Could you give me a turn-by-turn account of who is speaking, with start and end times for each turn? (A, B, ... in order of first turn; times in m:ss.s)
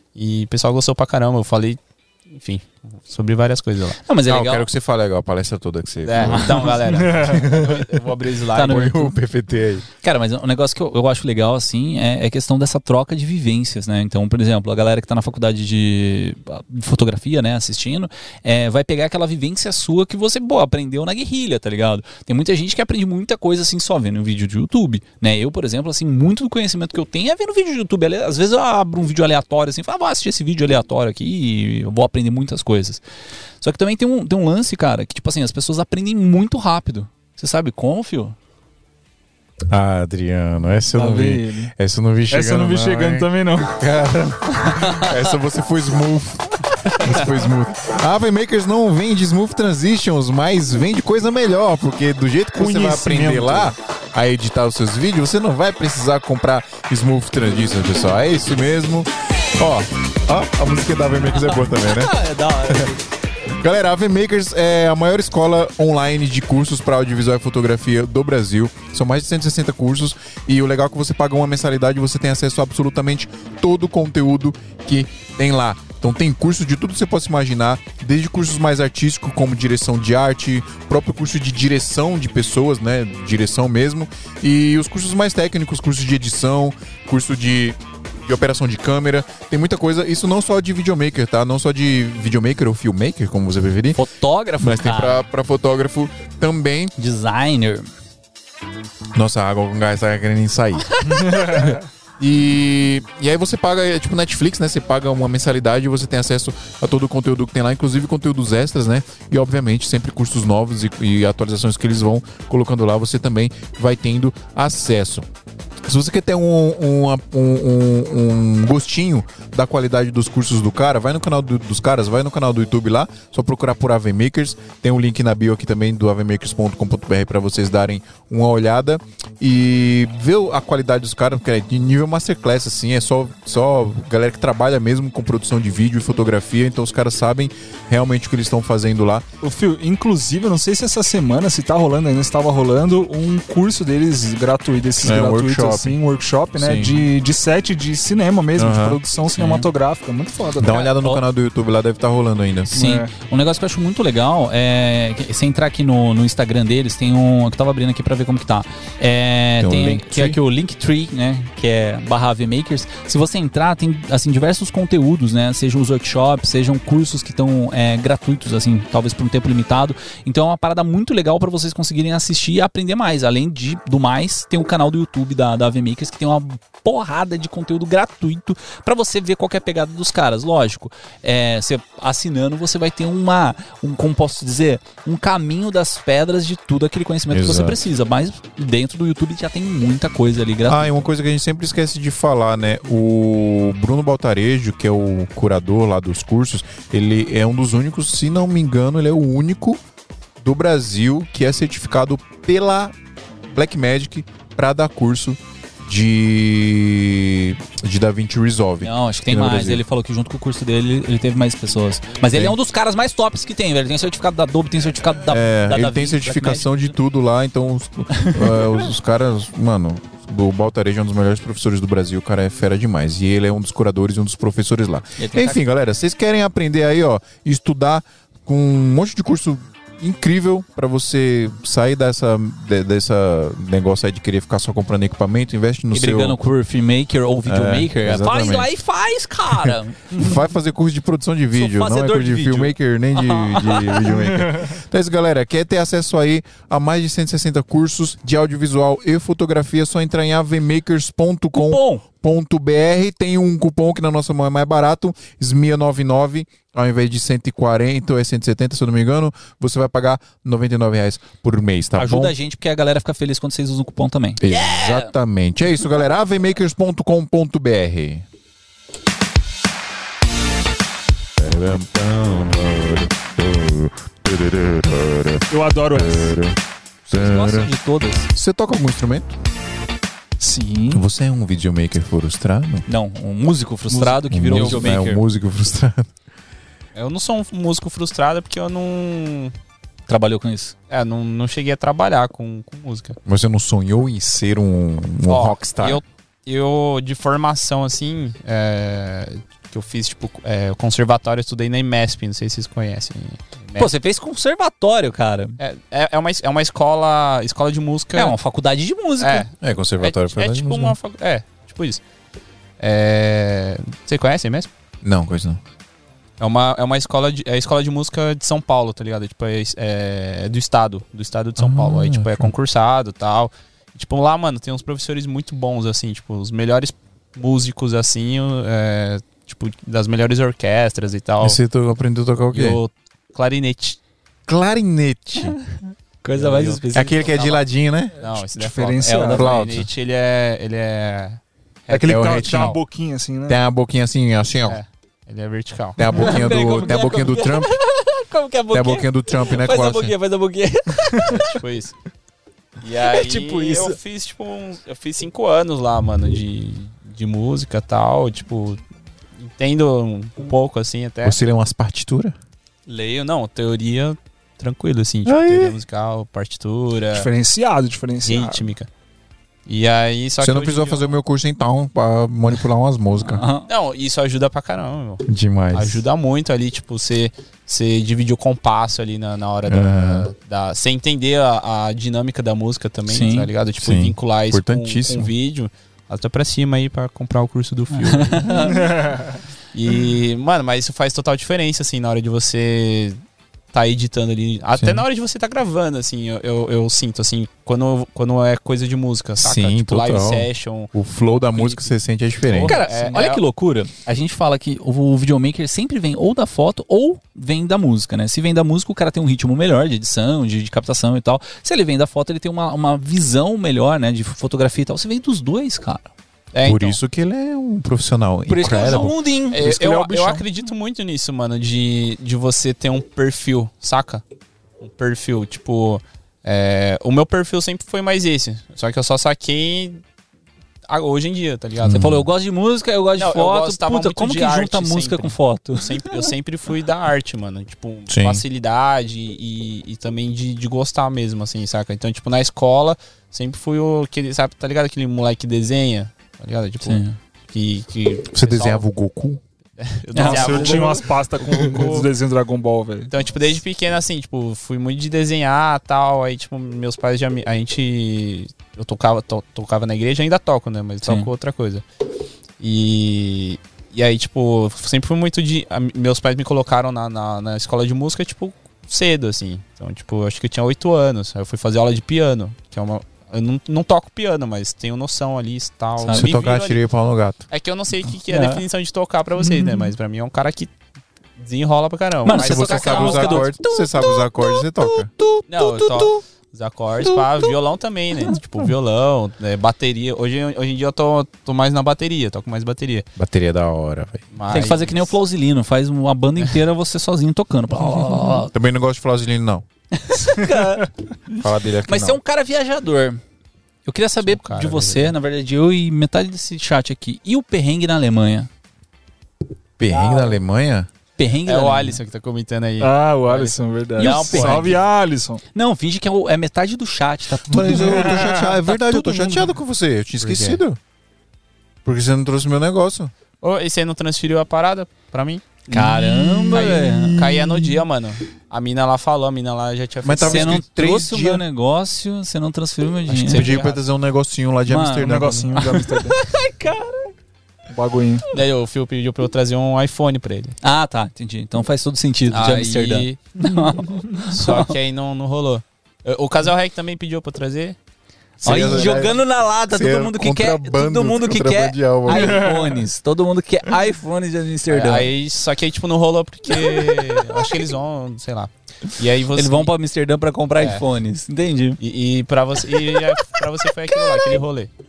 0:00.2-0:04.0 A
0:04.0-0:04.7 B
0:04.3-0:08.0 C
0:06.0-0:08.9 A
0:06.2-0:06.8 B
0:07.0-0:07.4 D
0:08.5-0:09.2 B
0:08.6-0:09.9 C
0:10.0-0:33.0 B
0:33.6-0:38.4 B
0:39.7-1:02.2 C
0:40.9-0:41.7 D
0:42.3-0:43.8 D
0:44.8-0:45.1 B
0:52.6-0:53.7 D
1:01.4-1:03.0 B
1:02.7-1:02.9 C
1:03.5-1:34.0 C
1:34.0-1:35.2 B
1:34.6-1:36.9 C
1:37.0-1:37.9 B
1:39.2-1:55.3 C
1:41.2-1:41.8 D
1:55.9-2:19.3 C
2:19.4-2:30.8 D
2:25.0-2:26.0 C
2:26.6-2:27.0 C
2:28.6-2:29.0 C
2:29.4-2:29.7 B
2:30.6-2:32.7 C
2:30.7-2:31.2 B
2:32.7-3:11.1 B
2:32.7-2:33.1 D
2:39.6-2:40.4 C
3:07.3-3:07.8 C
3:10.7-3:19.8 C
3:20.4-3:23.0 C
3:23.5-3:29.8 C
3:28.8-3:36.9 B
3:32.3-3:32.6 C
3:35.3-3:56.4 C
3:38.2-3:38.6 B
3:45.2-3:45.6 B
3:55.9-4:00.3 B
3:57.5-3:58.7 C
3:59.5-4:22.4 C
4:01.6-4:04.1 B
4:04.2-4:04.7 D
4:11.6-4:12.0 B
4:22.0-4:25.1 B
4:24.4-4:28.3 C
4:31.4-4:36.6 C
4:35.5-4:36.4 D
4:37.1-4:38.3 B
4:37.1-4:37.7 C
4:38.3-4:39.3 C
4:40.4-4:41.0 D
4:40.9-4:42.8 C
4:42.9-4:45.2 B
4:43.9-4:46.1 C
4:47.0-4:49.5 A
4:50.1-4:50.7 B
4:50.9-4:53.2 A
4:53.3-4:56.0 C
4:55.2-5:03.9 A
5:03.8-5:05.6 B
5:05.6-5:08.4 A
5:08.2-5:09.5 B
5:09.2-5:12.0 A
5:09.6-5:11.0 C
5:12.8-5:14.7 A
5:15.0-5:15.6 C
5:16.4-5:31.6 A
5:21.6-5:22.5 C
5:31.4-5:32.8 C
5:32.5-5:34.0 A
5:34.5-5:35.6 C
5:36.2-5:37.3 B
5:36.3-5:37.6 A
5:36.9-5:38.4 C
5:38.2-5:42.8 A
5:38.6-5:39.4 D
5:39.0-5:39.6 B
5:39.3-5:39.9 C
5:41.9-5:43.6 D
5:42.1-5:42.8 C
5:43.5-5:44.8 C
5:44.6-5:46.1 A
5:46.0-5:47.8 C
5:46.1-5:51.6 B
5:48.7-5:50.1 C
5:51.2-5:51.9 A
5:52.8-5:58.8 A
5:53.0-5:54.0 B
5:59.4-6:01.4 A
6:01.2-6:02.4 C
6:02.9-6:07.3 A
6:05.2-6:05.8 C
6:07.1-6:08.7 D
6:08.2-6:08.9 A
6:09.7-6:11.1 A
6:10.4-6:13.4 C
6:13.2-6:13.7 B
6:13.7-6:28.8 A
6:15.3-6:16.0 C
6:19.7-6:20.3 C
6:23.1-6:23.5 B
6:23.8-6:25.3 C
6:28.0-6:28.8 B
6:28.6-6:29.4 D
6:29.7-6:33.2 A
6:33.7-6:40.9 A
6:34.8-6:35.0 C
6:39.4-6:42.8 C
6:41.5-6:41.9 A
6:42.4-6:43.4 A
6:42.6-6:56.1 B
6:56.5-6:57.0 A
6:56.6-6:59.2 C
6:58.5-7:00.4 B
6:59.5-7:04.2 A
7:04.8-7:10.0 A
7:10.9-7:12.1 A
7:11.8-7:12.3 C
7:11.9-7:16.3 B
7:13.2-7:28.8 A
7:18.1-7:18.4 C
7:26.8-7:27.2 B
7:28.3-7:29.4 C
7:29.8-7:32.1 A
7:30.1-7:30.9 B
7:30.2-7:33.1 D
7:33.1-7:41.8 A
7:41.0-7:41.3 B
7:42.6-7:56.8 A
7:56.0-7:56.3 B
7:56.1-7:57.5 C
7:57.5-8:00.7 A
7:58.3-7:58.6 B
8:01.4-8:03.5 A
8:02.2-8:06.2 B
8:02.3-8:05.1 C
8:05.5-8:13.1 A
8:07.0-8:07.5 B
8:13.2-8:14.3 C
8:14.3-8:15.2 A
8:14.5-8:18.5 B
8:18.5-8:19.6 C
8:19.9-8:23.2 B
8:21.4-8:22.2 C
8:23.8-8:28.5 B
8:24.2-8:25.1 A
8:29.8-8:30.9 C
8:29.9-8:30.4 B
8:31.2-8:32.0 B
8:31.5-8:34.8 A
8:32.8-8:35.4 D
8:34.0-8:34.8 B
8:35.5-8:39.5 B
8:37.5-8:40.8 C
8:37.6-8:38.5 D
8:40.2-8:40.6 A
8:41.8-8:43.1 C
8:43.4-8:50.6 A
8:45.7-8:47.5 B
8:50.0-8:51.4 C
8:50.2-8:53.5 B
8:53.1-8:53.8 A
8:53.2-8:55.6 C
8:54.7-8:57.1 B
8:55.0-8:56.2 D
8:57.7-8:58.3 D
8:58.3-9:00.6 A
9:00.6-9:04.8 B
9:02.3-9:03.2 A
9:04.3-9:07.8 A
9:08.4-9:12.5 C
9:08.4-9:15.1 B
9:08.4-9:09.1 A
9:12.1-9:12.8 D
9:14.7-9:19.7 A
9:16.5-9:17.5 B
9:19.3-9:21.8 B
9:20.6-9:20.8 A
9:21.8-9:24.7 A
9:22.7-9:23.1 B
9:23.9-9:24.4 B